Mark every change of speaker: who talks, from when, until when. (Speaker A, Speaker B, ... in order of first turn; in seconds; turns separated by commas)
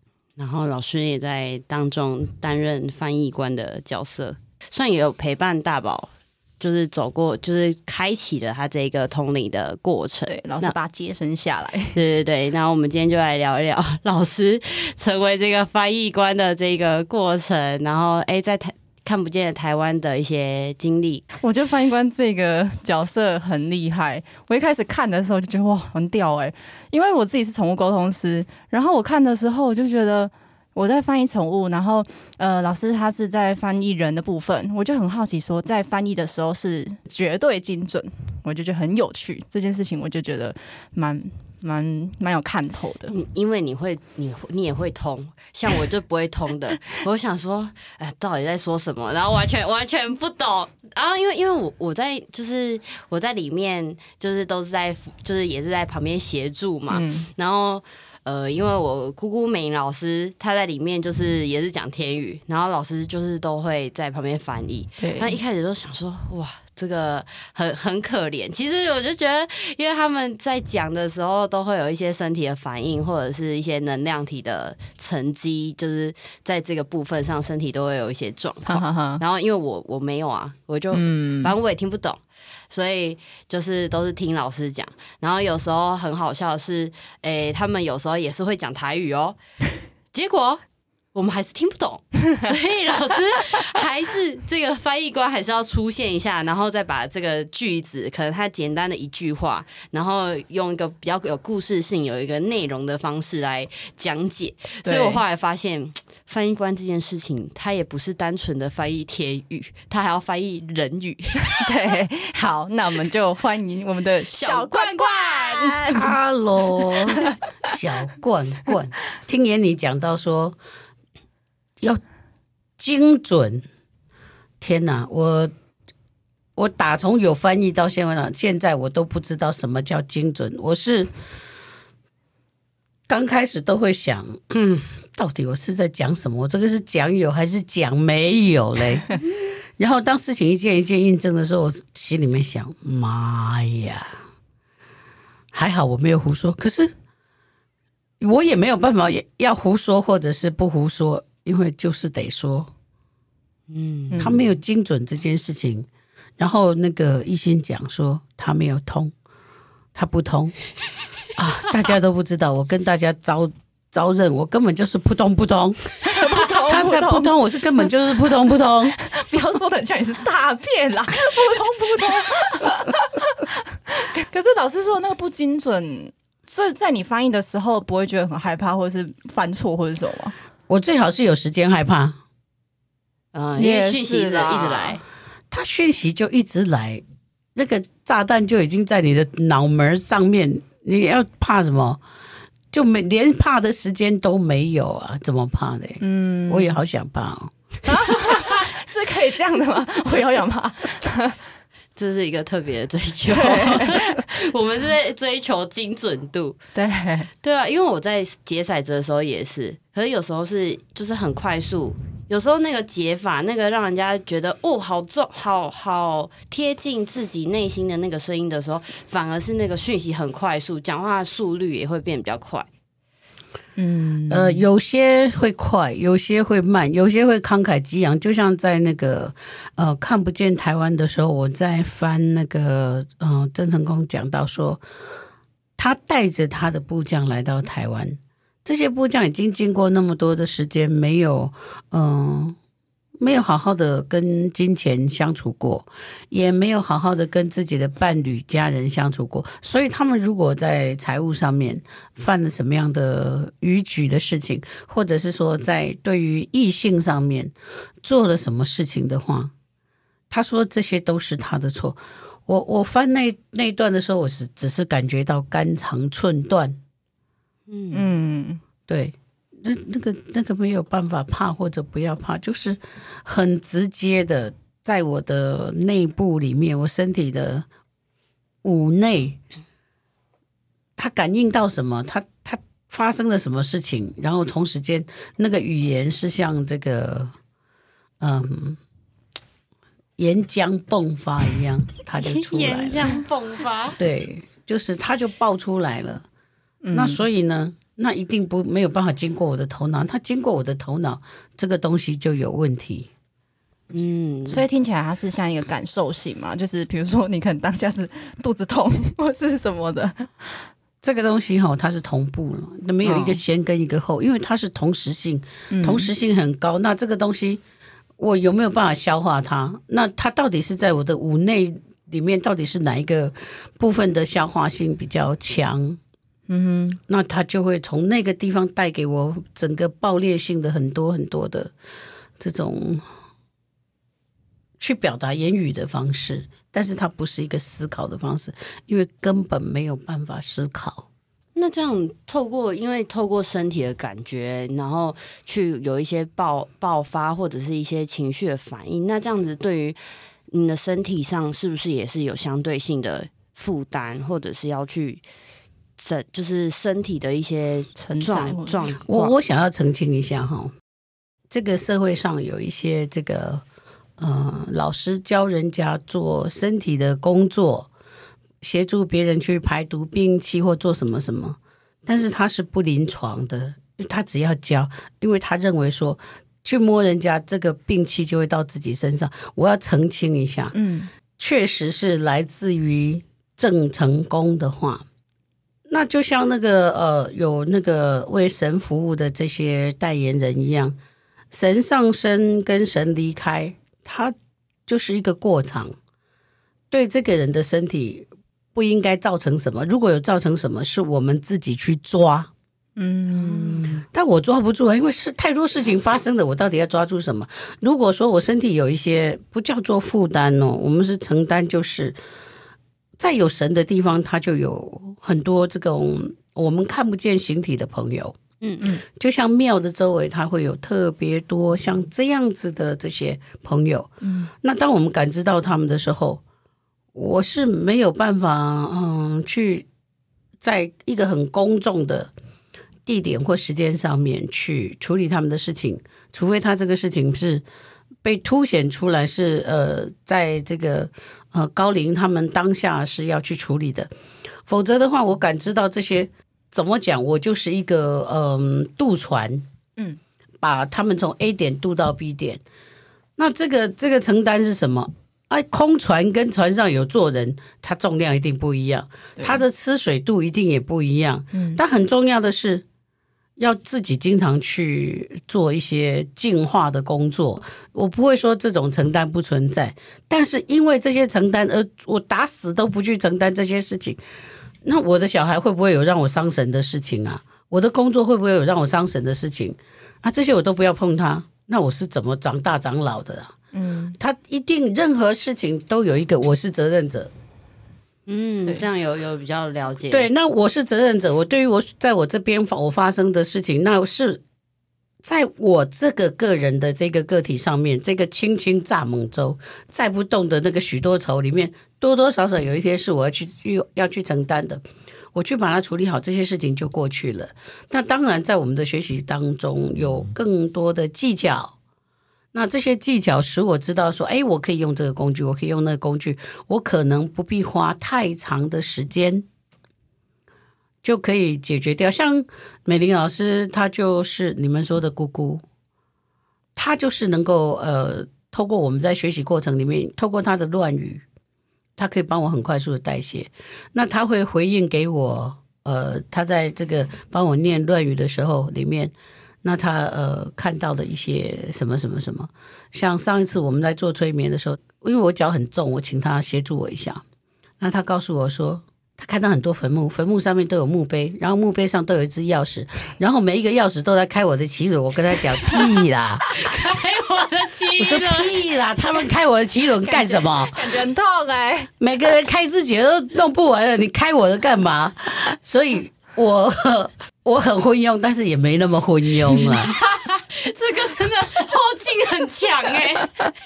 Speaker A: 0.4-10.7, Speaker B: 10.3-12.0, Speaker A: 11.9-21.2, Speaker B: 21.4-43.1, Speaker A: 43.1-89.4, Speaker B: 56.9-57.3, Speaker B: 65.0-65.4, Speaker B: 78.7-79.2, Speaker B: 80.9-81.5, Speaker A: 90.1-90.6, Speaker A: 91.1-111.7, Speaker B: 104.8-105.2, Speaker B: 111.6-116.1, Speaker A: 114.3-115.9, Speaker C: 115.9-120.6, Speaker B: 116.8-117.3, Speaker C: 122.8-123.6, Speaker C: 124.6-125.5, Speaker C: 126.5-131.1, Speaker C: 133.1-139.1, Speaker C: 139.8-144.2, Speaker C: 145.5-146.9, Speaker C: 148.2-152.7, Speaker A: 153.7-154.2, Speaker B: 154.1-154.4, Speaker C: 154.2-155.9, Speaker C: 156.4-159.1, Speaker C: 159.9-160.6, Speaker C: 161.3-168.9, Speaker B: 166.0-167.9, Speaker B: 169.0-180.3, Speaker C: 180.7-182.2, Speaker A: 183.3-185.0, Speaker B: 183.6-185.0, Speaker C: 185.5-187.0, Speaker C: 187.5-192.0, Speaker C: 192.7-197.5, Speaker B: 196.0-196.8, Speaker B: 197.9-201.4, Speaker C: 198.1-198.4, Speaker A: 202.0-206.6, Speaker B: 203.3-204.3, Speaker B: 206.7-207.3, Speaker A: 207.4-222.7, Speaker B: 223.8-224.6, Speaker C: 224.3-234.8, Speaker C: 235.8-242.6, Speaker C: 243.2-259.5, Speaker C: 260.3-266.8, Speaker A: 267.7-268.1, Speaker B: 267.9-268.6, Speaker C: 268.9-277.6, Speaker C: 278.6-279.4, Speaker C: 281.0-287.3, Speaker C: 288.2-288.8, Speaker C: 290.2-293.2, Speaker A: 292.2-294.0, Speaker C: 294.0-296.2, Speaker B: 296.8-297.2, Speaker C: 296.9-303.1, Speaker A: 303.9-304.6, Speaker B: 304.5-310.7, Speaker C: 311.0-317.6, Speaker B: 313.0-313.4, Speaker B: 315.7-316.1, Speaker C: 318.2-326.0, Speaker B: 326.5-327.0, Speaker C: 327.1-331.7, Speaker C: 332.4-333.1, Speaker C: 334.8-341.1, Speaker A: 341.6-350.0, Speaker A: 350.5-355.2, Speaker A: 356.0-359.3, Speaker B: 357.9-358.9, Speaker C: 359.1-360.7, Speaker C: 361.5-363.6, Speaker C: 364.2-367.9, Speaker C: 368.6-380.7, Speaker B: 380.7-381.1, Speaker C: 381.4-385.0, Speaker C: 385.9-391.0, Speaker C: 391.5-394.3, Speaker C: 394.9-395.9, Speaker C: 396.9-402.5, Speaker B: 403.0-404.0, Speaker C: 403.3-412.2, Speaker C: 413.2-418.4, Speaker C: 419.0-426.4, Speaker B: 424.2-424.5, Speaker C: 427.1-429.9, Speaker C: 430.6-432.3, Speaker C: 433.1-437.6, Speaker C: 438.2-444.1, Speaker C: 444.6-449.6, Speaker C: 450.6-452.6, Speaker C: 453.4-462.8, Speaker B: 459.4-459.6, Speaker B: 461.5-461.8, Speaker C: 463.6-474.2, Speaker C: 474.8-483.5, Speaker B: 483.7-484.1, Speaker C: 484.2-487.3, Speaker A: 488.3-490.3, Speaker C: 490.1-494.4, Speaker C: 495.2-511.7, Speaker C: 512.5-519.5, Speaker C: 521.0-525.6, Speaker C: 526.8-531.2, Speaker C: 532.0-547.2, Speaker C: 547.8-556.4, Speaker A: 556.5-558.6, Speaker C: 558.0-560.8, Speaker B: 560.0-561.9, Speaker C: 562.0-569.9, Speaker A: 569.8-573.5